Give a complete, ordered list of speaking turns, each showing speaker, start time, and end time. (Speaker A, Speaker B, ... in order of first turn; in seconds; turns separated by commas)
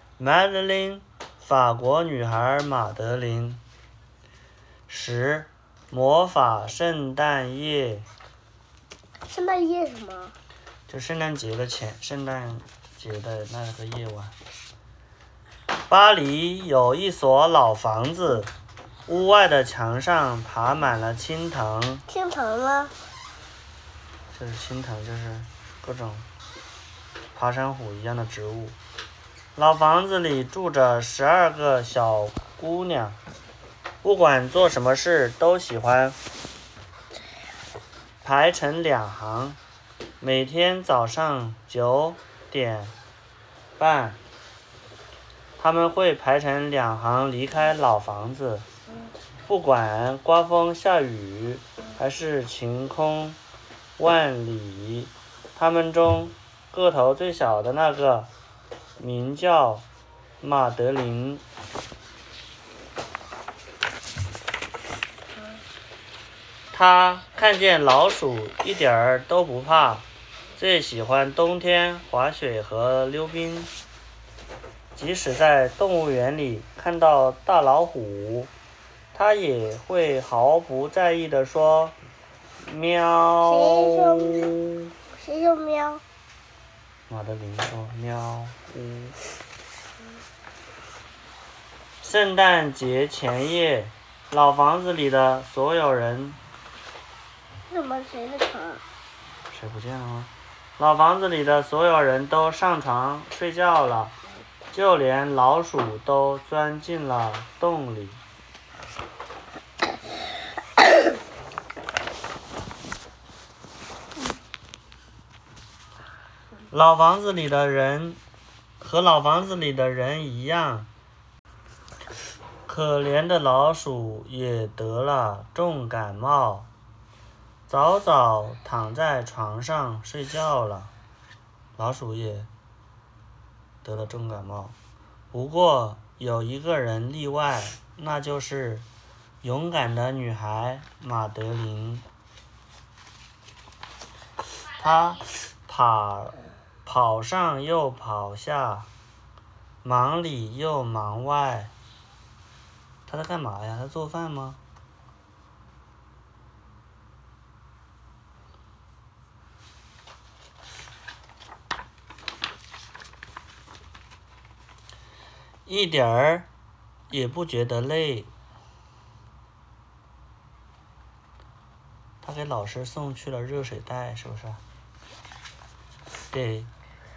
Speaker A: 0.2-3.6, Speaker A: 4.9-8.0, Speaker B: 9.2-10.3, Speaker A: 10.9-14.3, Speaker A: 15.9-18.5, Speaker A: 19.1-22.0, Speaker B: 22.1-22.9, Speaker A: 24.3-26.2, Speaker A: 27.3-28.8, Speaker A: 29.6-33.2, Speaker A: 34.0-36.2, Speaker A: 38.2-39.6, Speaker A: 40.2-42.9, Speaker A: 43.8-44.2, Speaker A: 45.6-48.6, Speaker A: 49.5-53.4, Speaker A: 54.0-58.3, Speaker A: 59.0-59.9, Speaker A: 60.4-61.4, Speaker A: 66.7-70.0, Speaker A: 70.6-73.7, Speaker A: 74.9-78.5, Speaker A: 79.1-81.9, Speaker A: 82.6-84.9, Speaker B: 83.4-84.5, Speaker B: 85.1-86.0, Speaker A: 87.1-89.2, Speaker A: 92.0-96.4, Speaker B: 97.7-98.8, Speaker A: 99.5-104.2, Speaker A: 104.7-108.2, Speaker A: 116.7-118.2, Speaker A: 118.8-120.9, Speaker A: 122.7-126.7, Speaker A: 127.7-130.9, Speaker A: 131.8-132.5, Speaker A: 133.8-134.8, Speaker A: 135.3-138.8, Speaker A: 139.4-142.0, Speaker A: 144.8-148.9, Speaker A: 149.8-151.7, Speaker A: 153.1-154.6, Speaker A: 165.7-166.5, Speaker A: 167.1-168.3, Speaker A: 172.2-174.6, Speaker A: 176.3-176.7